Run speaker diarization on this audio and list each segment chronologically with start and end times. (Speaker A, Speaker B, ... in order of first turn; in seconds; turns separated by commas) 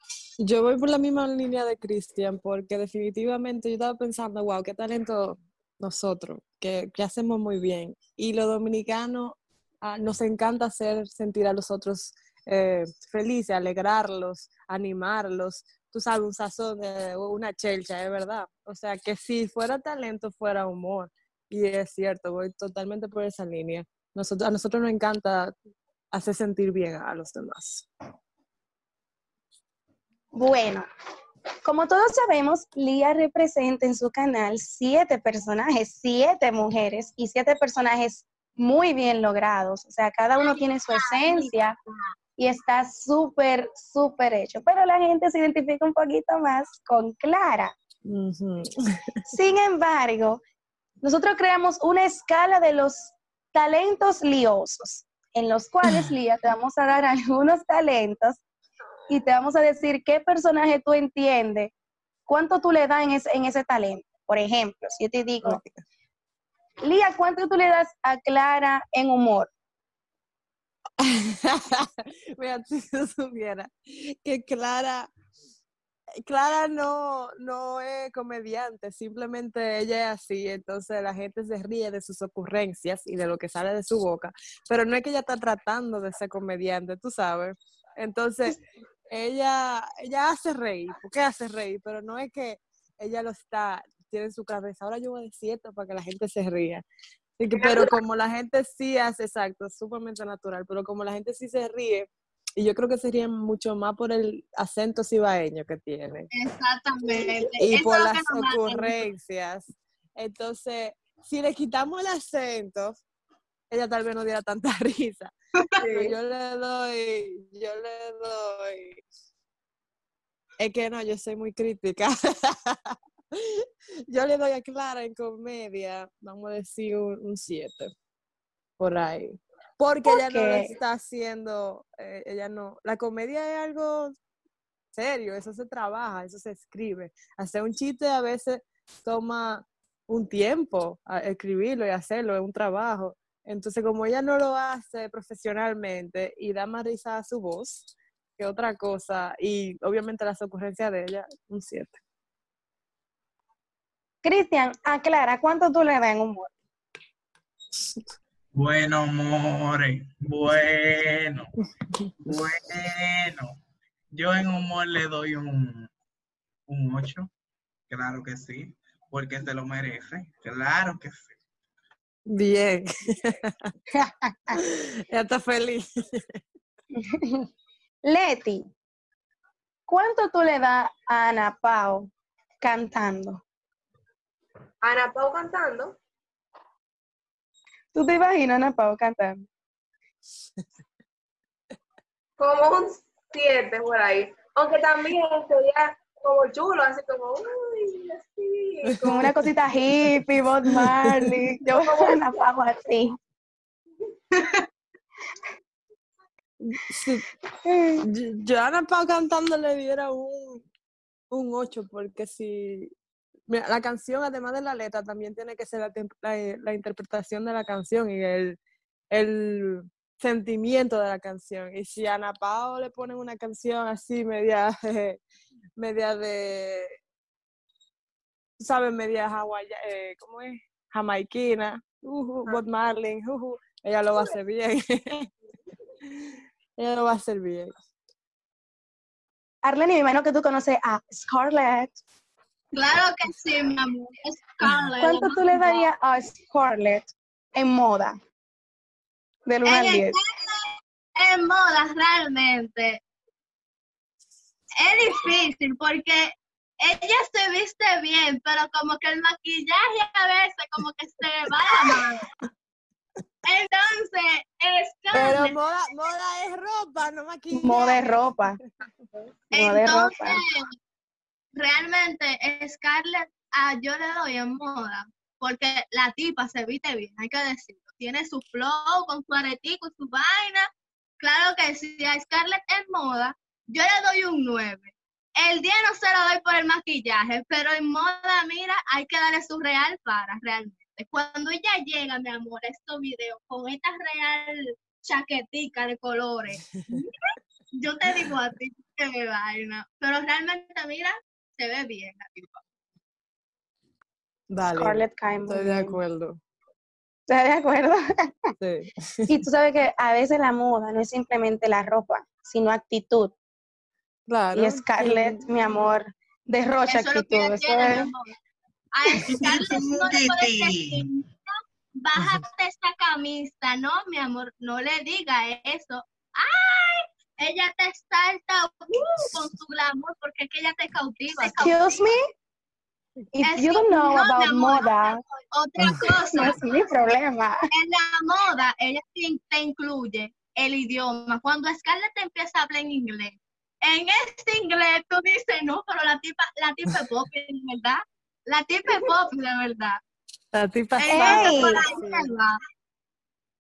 Speaker A: 0.4-25.5, Speaker A: 26.1-27.9, Speaker B: 30.3-30.9, Speaker B: 31.6-41.8, Speaker C: 40.4-42.1, Speaker B: 42.4-47.7, Speaker A: 48.0-49.2, Speaker B: 49.3-50.4, Speaker B: 51.0-58.4, Speaker A: 55.8-56.1, Speaker B: 59.1-61.7, Speaker B: 62.3-65.6, Speaker A: 65.4-65.7, Speaker B: 66.8-69.5, Speaker A: 71.0-75.1, Speaker A: 76.2-88.6, Speaker A: 89.1-96.8, Speaker A: 97.4-106.3, Speaker D: 97.6-97.9, Speaker C: 106.3-109.1, Speaker A: 107.6-113.0, Speaker A: 113.7-115.3, Speaker D: 115.8-116.1, Speaker A: 115.8-119.0, Speaker A: 120.6-127.9, Speaker A: 128.8-134.2, Speaker B: 130.1-130.7, Speaker A: 134.9-147.9, Speaker A: 148.4-152.0, Speaker B: 154.2-156.5, Speaker E: 158.5-161.5, Speaker E: 162.2-163.6, Speaker E: 164.1-165.9, Speaker E: 166.7-167.3, Speaker E: 167.9-171.3, Speaker A: 172.3-173.7, Speaker B: 173.9-174.6, Speaker A: 174.5-176.4, Speaker B: 176.9-177.5, Speaker B: 178.0-178.7, Speaker B: 179.9-182.1, Speaker B: 182.6-183.4, Speaker D: 184.8-186.0, Speaker B: 187.9-189.5, Speaker D: 192.4-199.3, Speaker A: 198.9-199.4, Speaker B: 199.0-203.2, Speaker A: 200.1-201.4, Speaker D: 201.7-202.2, Speaker A: 206.6-207.2, Speaker B: 207.6-208.1, Speaker A: 208.0-210.7, Speaker A: 211.3-212.9, Speaker A: 213.5-218.6, Speaker A: 219.1-225.2, Speaker A: 225.8-227.0, Speaker A: 228.6-235.3, Speaker A: 236.0-237.7, Speaker B: 239.6-242.0, Speaker C: 242.7-245.8, Speaker B: 245.0-248.2, Speaker B: 249.4-250.2, Speaker C: 249.6-253.0, Speaker C: 254.8-262.2, Speaker C: 263.4-265.6, Speaker A: 265.1-268.6, Speaker B: 267.5-268.6, Speaker C: 269.5-270.7, Speaker B: 269.5-270.4, Speaker C: 271.5-280.7, Speaker C: 281.2-302.6, Speaker A: 304.5-306.4, Speaker B: 304.7-306.0, Speaker B: 307.3-308.5, Speaker A: 308.6-309.4, Speaker B: 309.3-313.3, Speaker A: 314.3-315.6, Speaker B: 314.5-318.1, Speaker C: 316.9-318.4, Speaker C: 318.9-332.1, Speaker E: 319.3-321.1, Speaker B: 331.4-332.2, Speaker B: 333.3-335.2, Speaker C: 333.4-336.6, Speaker B: 336.0-337.7, Speaker C: 337.7-350.0, Speaker A: 350.5-352.3, Speaker C: 351.0-352.6, Speaker B: 351.1-351.8